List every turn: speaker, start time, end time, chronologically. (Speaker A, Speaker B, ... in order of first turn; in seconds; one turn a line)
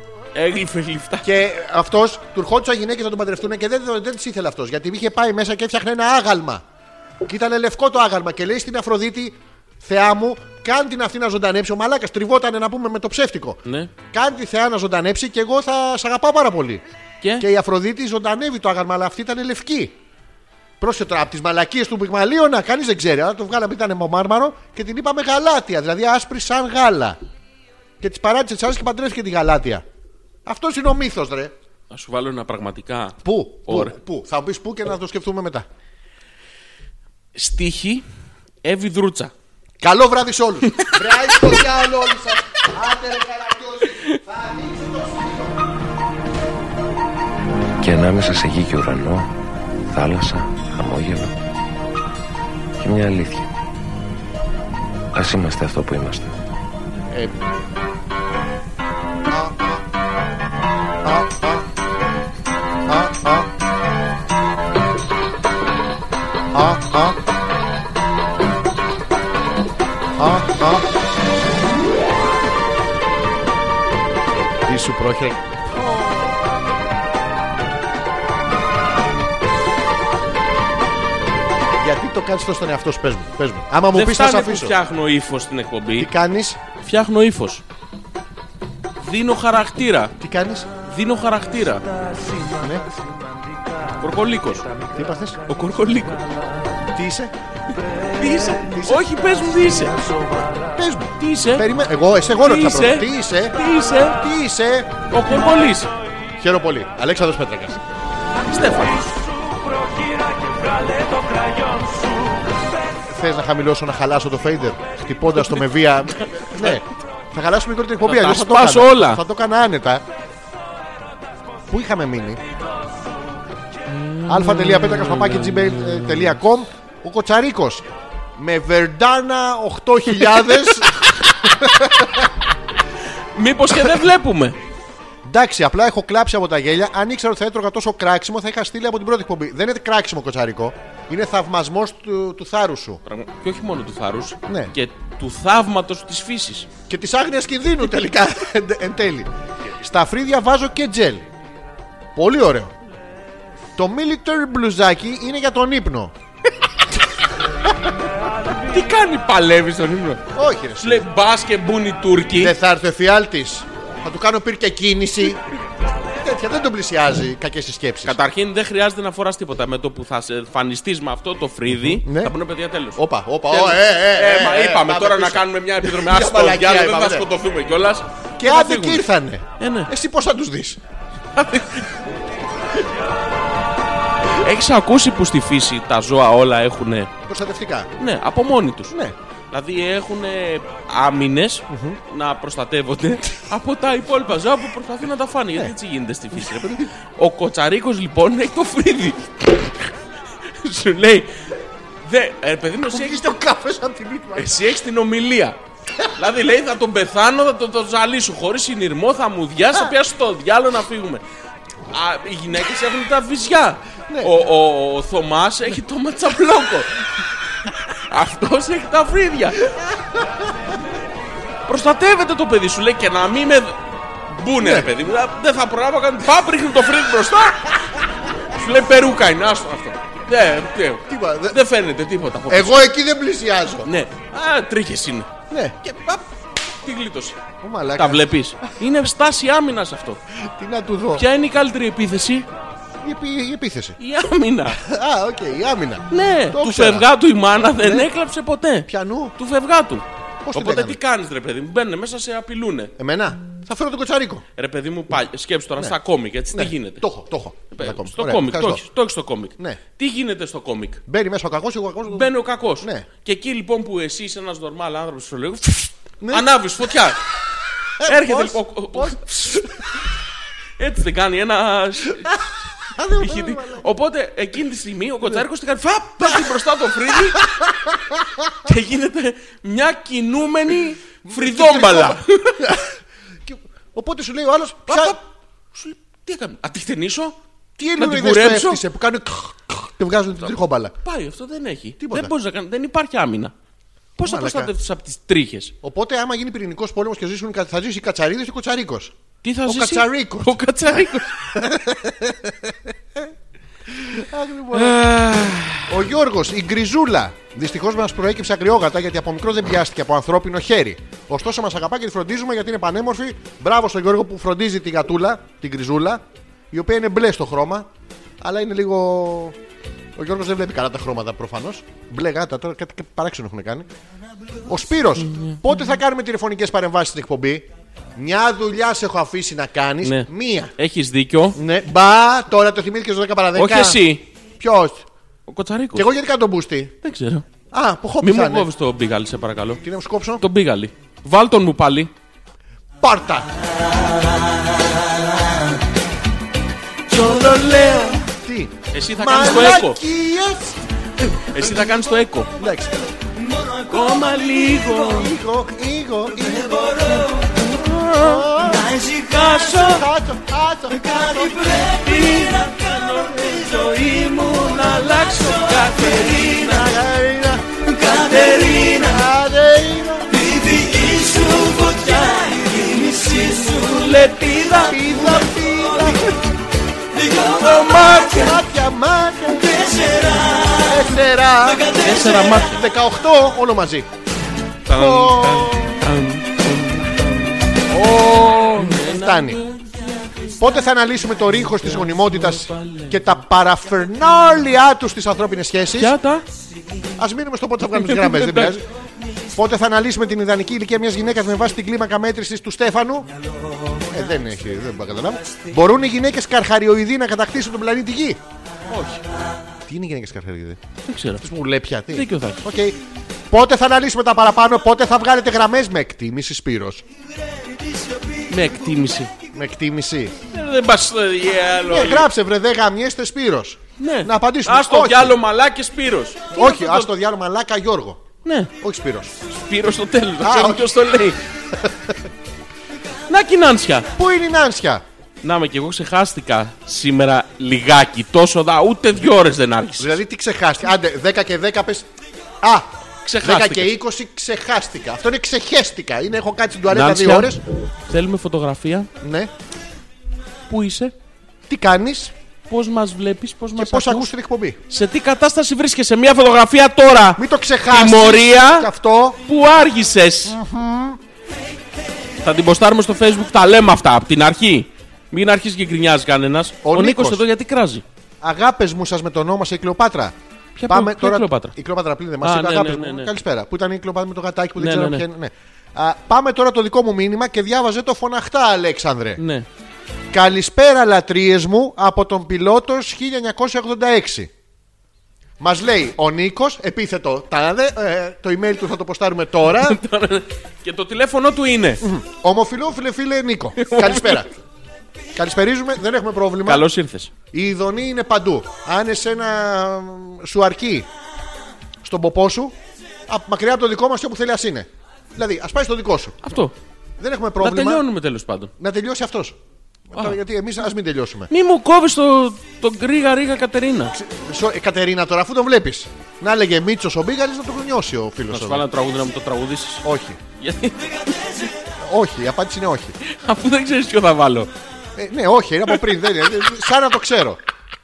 Speaker A: 0.3-1.3
Speaker B: 1.2-6.6
Speaker B: 7.2-16.8
Speaker A: 13.6-13.9
Speaker A: 17.2-17.5
Speaker B: 17.4-20.0
Speaker B: 20.8-27.2
Speaker B: 28.0-29.8
Speaker B: 30.4-31.5
Speaker A: 31.9-33.9
Speaker B: 33.2-35.7
Speaker A: 37.3-38.0
Speaker A: 38.6-39.3
Speaker B: 39.8-45.6
Speaker C: 47.8-49.3
Speaker C: 49.9-51.3
Speaker C: 52.8-53.5
Speaker C: 55.1-56.3
Speaker B: 57.1-57.3
Speaker B: 59.3-59.8
Speaker B: 61.0-61.6
Speaker B: 62.9-63.5
Speaker B: 66.5-67.2
Speaker B: 70.2-70.9
Speaker B: 74.6-76.3
Speaker B: 81.8-84.8
Speaker A: 83.9-86.1
Speaker B: 86.0-86.6
Speaker A: 86.8-87.6
Speaker A: 89.0-90.1
Speaker B: 90.2-90.7
Speaker A: 90.8-91.8
Speaker B: 92.4-92.8
Speaker A: 94.0-94.7
Speaker B: 94.9-95.4
Speaker A: 95.5-96.2
Speaker B: 96.9-97.3
Speaker A: 98.1-99.9
Speaker B: 98.7-99.2
Speaker B: 100.7-103.6
Speaker A: 101.2-101.6
Speaker A: 102.4-104.2
Speaker B: 104.1-104.9
Speaker A: 105.1-105.9
Speaker B: 106.3-107.8
Speaker A: 108.4-109.2
Speaker B: 113.1-120.0
Speaker A: 116.5-116.8
Speaker A: 118.0-119.2
Speaker B: 121.7-122.4
Speaker A: 123.8-126.3
Speaker B: 124.3-127.8
Speaker B: 128.4-132.3
Speaker A: 133.3-134.6
Speaker B: 135.2-143.0
Speaker A: 143.0-146.7
Speaker B: 144.5-144.7
Speaker B: 146.9-151.3
Speaker B: 152.2-152.7
Speaker B: 153.8-156.1
Speaker A: 158.7-160.2
Speaker B: 160.3-161.1
Speaker A: 160.8-162.5
Speaker B: 162.3-165.4
Speaker B: 166.2-168.2
Speaker A: 168.0-179.0
Speaker B: 171.7-172.3
Speaker B: 172.9-177.3
Speaker B: 178.4-180.8
Speaker A: 179.6-179.9
Speaker A: 181.3-181.9
Speaker A: 184.3-187.1
Speaker B: 187.2-187.9
Speaker A: 188.0-188.9
Speaker B: 188.9-189.2
Speaker A: 189.5-199.7
Speaker B: 191.7-192.0
Speaker A: 200.6-201.3
Speaker A: 202.0-203.3
Speaker B: 202.9-204.5
Speaker A: 204.3-205.6
Speaker A: 206.1-211.2
Speaker A: 211.9-217.1
Speaker A: 217.7-219.7
Speaker B: 219.7-220.2
Speaker A: 221.7-223.8
Speaker A: 224.3-227.7
Speaker B: 224.6-224.9
Speaker A: 228.4-232.9
Speaker B: 231.1-231.6
Speaker B: 232.5-233.9
Speaker A: 233.8-236.2
Speaker B: 235.5-235.8
Speaker A: 236.8-237.4
Speaker B: 237.6-238.3
Speaker A: 237.9-240.2
Speaker B: 240.3-241.2
Speaker A: 241.1-242.4
Speaker B: 243.0-244.0
Speaker A: 244.0-244.8
Speaker B: 244.7-247.1
Speaker A: 246.1-252.9
Speaker B: 247.6-248.1
Speaker B: 248.9-249.3
Speaker B: 250.4-251.0
Speaker B: 253.0-254.4
Speaker A: 254.6-257.1
Speaker B: 256.5-258.9
Speaker A: 257.7-261.0
Speaker B: 261.1-263.1
Speaker A: 262.1-267.2
Speaker B: 266.2-266.5
Speaker B: 268.0-269.7
Speaker A: 268.0-269.8
Speaker A: 270.8-272.3
Speaker B: 272.9-273.9
Speaker A: 273.1-277.4
Speaker B: 277.4-278.5
Speaker A: 278.6-282.7
Speaker B: 281.2-285.2
Speaker A: 284.9-285.2
Speaker A: 285.7-287.3
Speaker B: 287.8-290.9
Speaker A: 287.9-288.8
Speaker A: 291.0-293.5
Speaker B: 292.0-292.3
Speaker A: 294.2-295.7
Speaker B: 294.2-294.7
Speaker B: 295.8-299.1
Speaker A: 299.4-301.5
Speaker B: 299.6-300.6
Speaker B: 301.5-303.3
Speaker B: 303.9-305.0
Speaker A: 304.7-305.9
Speaker B: 305.9-317.9
Speaker B: 318.4-319.6
Speaker B: 320.1-323.9
Speaker B: 324.6-330.7
Speaker A: 325.2-325.6
Speaker A: 330.0-331.6
Speaker B: 331.5-334.0
Speaker A: 333.5-334.2
Speaker B: 334.6-335.1
Speaker A: 335.5-336.1
Speaker B: 335.9-336.9
Speaker A: 337.0-337.4
Speaker B: 337.7-338.7
Speaker A: 338.2-339.8
Speaker B: 339.8-340.4
Speaker A: 340.4-342.1
Speaker B: 343.0-343.5
Speaker A: 347.1-348.2
Speaker B: 348.2-350.8
Speaker A: 348.9-350.0
Speaker A: 351.3-352.5
Speaker B: 352.6-353.0
Speaker A: 353.9-355.3
Speaker B: 354.9-357.3
Speaker A: 357.6-360.0
Speaker B: 358.1-358.9
Speaker D: 358.7-359.2
Speaker B: 359.8-361.7
Speaker D: 361.0-361.9
Speaker A: 361.8-366.8
Speaker B: 366.2-367.8
Speaker D: 368.0-369.0
Speaker A: 368.1-368.9
Speaker B: 368.7-370.3
Speaker D: 370.4-373.4
Speaker A: 371.2-375.1
Speaker B: 374.8-376.3
Speaker A: 377.3-378.6
Speaker B: 378.3-379.8
Speaker D: 379.7-380.8
Speaker B: 380.8-384.1
Speaker A: 381.9-382.8
Speaker A: 384.9-390.5
Speaker B: 384.9-386.0
Speaker B: 388.8-389.6
Speaker B: 390.6-396.1
Speaker A: 391.6-393.2
Speaker A: 395.9-396.4
Speaker B: 397.2-398.8
Speaker A: 397.9-398.8
Speaker B: 399.5-403.3
Speaker B: 404.1-408.4
Speaker A: 408.9-409.2
Speaker B: 409.9-410.8
Speaker A: 411.1-411.4
Speaker B: 411.4-417.0
Speaker A: 412.1-412.6
Speaker A: 418.5-419.3
Speaker B: 419.5-420.4
Speaker A: 420.5-422.3
Speaker B: 421.9-425.4
Speaker A: 424.0-427.1
Speaker B: 426.5-428.3
Speaker A: 428.4-428.7
Speaker B: 428.8-429.4
Speaker A: 429.5-431.4
Speaker B: 430.4-430.9
Speaker B: 431.7-432.2
Speaker A: 433.3-434.1
Speaker B: 434.1-435.0
Speaker A: 435.4-440.2
Speaker B: 440.0-442.1
Speaker B: 442.6-442.9
Speaker A: 443.2-443.9
Speaker B: 443.4-447.6
Speaker A: 446.9-449.1
Speaker B: 449.2-449.5
Speaker A: 450.7-451.1
Speaker B: 451.7-452.3
Speaker A: 452.7-454.3
Speaker B: 453.7-454.8
Speaker A: 454.9-458.9
Speaker B: 457.4-459.4
Speaker A: 459.4-460.6
Speaker B: 460.4-461.2
Speaker A: 462.4-468.0
Speaker B: 466.8-467.4
Speaker B: 468.4-470.3
Speaker A: 470.8-471.7
Speaker B: 470.9-479.4
Speaker A: 472.4-473.3
Speaker A: 474.8-475.2
Speaker A: 479.4-479.6
Speaker B: 480.3-484.5
Speaker B: 485.6-490.0
Speaker A: 489.8-492.1
Speaker B: 492.0-494.5
Speaker A: 493.8-494.5
Speaker B: 495.3-496.9
Speaker A: 496.6-497.3
Speaker B: 497.5-501.1
Speaker B: 502.0-502.7
Speaker B: 503.3-506.4
Speaker A: 506.4-506.7
Speaker B: 507.2-508.1
Speaker A: 507.6-508.7
Speaker B: 508.8-509.6
Speaker B: 510.1-511.5
Speaker A: 511.5-514.1
Speaker B: 514.1-518.8
Speaker A: 518.5-520.0
Speaker B: 520.0-520.4
Speaker A: 520.6-521.5
Speaker B: 522.0-523.1
Speaker A: 523.2-524.7
Speaker B: 525.1-527.6